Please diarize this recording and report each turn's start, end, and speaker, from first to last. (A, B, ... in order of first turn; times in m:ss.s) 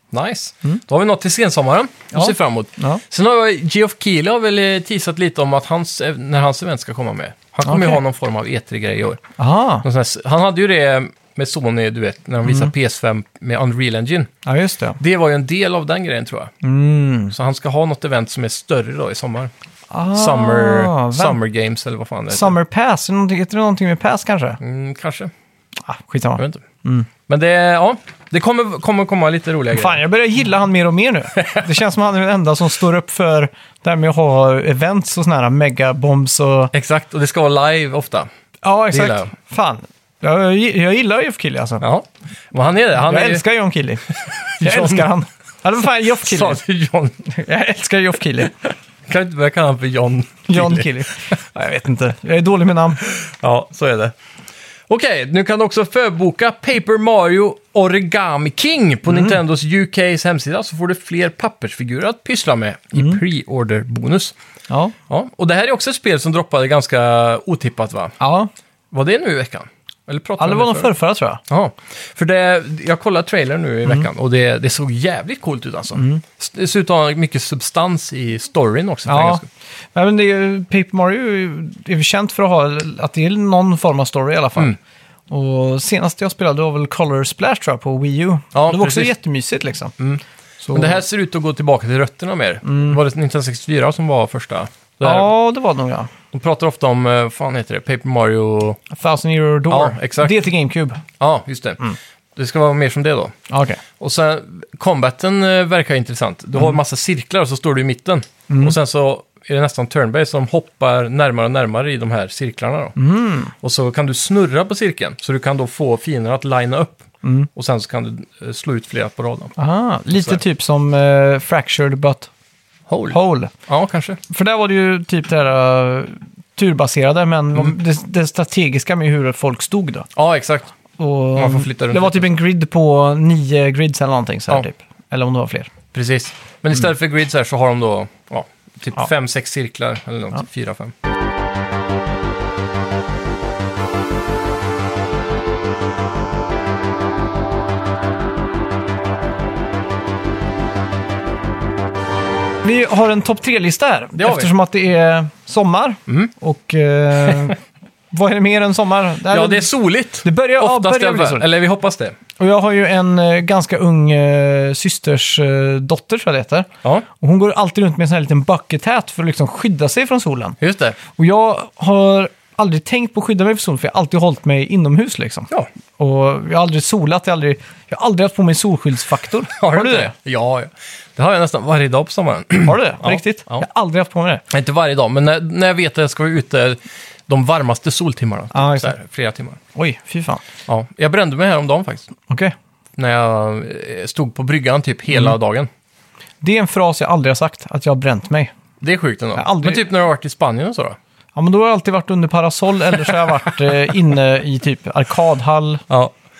0:00.1-0:09.2 A
0:02.1-0:03.0 B
0:07.6-0:08.0 B
0:09.4-0:09.8 B
0:09.8-0:14.3 A
0:12.4-0:12.7 B
0:14.4-0:15.0 B
0:15.0-0:16.5 A
0:16.6-0:17.3 B
0:17.3-0:19.5 A
0:19.9-0:21.4 B
0:20.1-0:22.5 A
0:22.3-0:24.6 B
0:24.6-0:25.3 A
0:25.8-0:27.1 B
0:26.4-0:26.6 A
0:27.3-0:30.0 A
0:29.7-0:36.7 B
0:36.7-0:38.3 A
0:38.6-0:41.8 B
0:38.9-0:39.3 A
0:41.8-0:43.4 A
0:43.0-0:44.1 B
0:44.1-0:45.1 A
0:44.6-0:46.6 B
0:46.2-0:47.2 A
0:47.2-0:48.5 B
0:49.1-0:51.0 A
0:50.5-0:53.0 B
0:53.1-0:54.1 A
0:54.9-1:04.3 A
0:59.1-0:59.4 B
1:04.7-1:04.9 B
1:05.1-1:08.1 A
1:08.2-1:08.5 B
1:08.9-1:10.9 A
1:10.4-1:11.4 B
1:11.5-1:19.5 A
1:15.9-1:16.2 B
1:19.1-1:19.4 B
1:19.9-1:24.8 B
1:25.3-1:29.9 B
1:28.5-1:29.1 A
1:30.6-1:31.0 B
1:30.7-1:35.3 A
1:32.6-1:33.0 B
1:35.0-1:36.1 B
1:36.3-1:38.8 A
1:38.9-1:41.0 B
1:39.7-1:40.4 A
1:41.2-1:41.8 A
1:42.4-1:43.3 A
1:43.5-1:43.8 B
1:44.0-1:53.0 A
1:48.5-1:48.8 B
1:53.0-1:53.5 B
1:53.6-1:59.5 A
1:57.2-1:57.5 B
1:59.6-2:02.3 B
2:02.9-2:04.2 A
2:03.1-2:03.5 B
2:04.3-2:10.1 B
2:10.2-2:10.7 A
2:11.0-2:15.7 B
2:11.4-2:12.3 A
2:15.9-2:20.9 A
2:32.6-2:37.6 B
2:34.2-2:34.5 A
2:38.1-2:39.7 B
2:39.3-2:42.2 A
2:40.2-2:41.4 B
2:42.4-2:50.6 B
2:50.6-2:51.0 A
2:51.1-3:00.1 B
2:59.5-3:03.6 A
3:02.6-3:04.4 B
3:04.5-3:09.6 A
3:08.5-3:09.0 B
3:09.7-3:10.4 B
3:10.7-3:12.1 A
3:12.3-3:12.5 B
3:13.0-3:15.7 A
3:16.4-3:18.5 B
3:18.8-3:21.0 A
3:19.4-3:19.8 B
3:21.4-3:25.8 B
3:25.9-3:26.1 A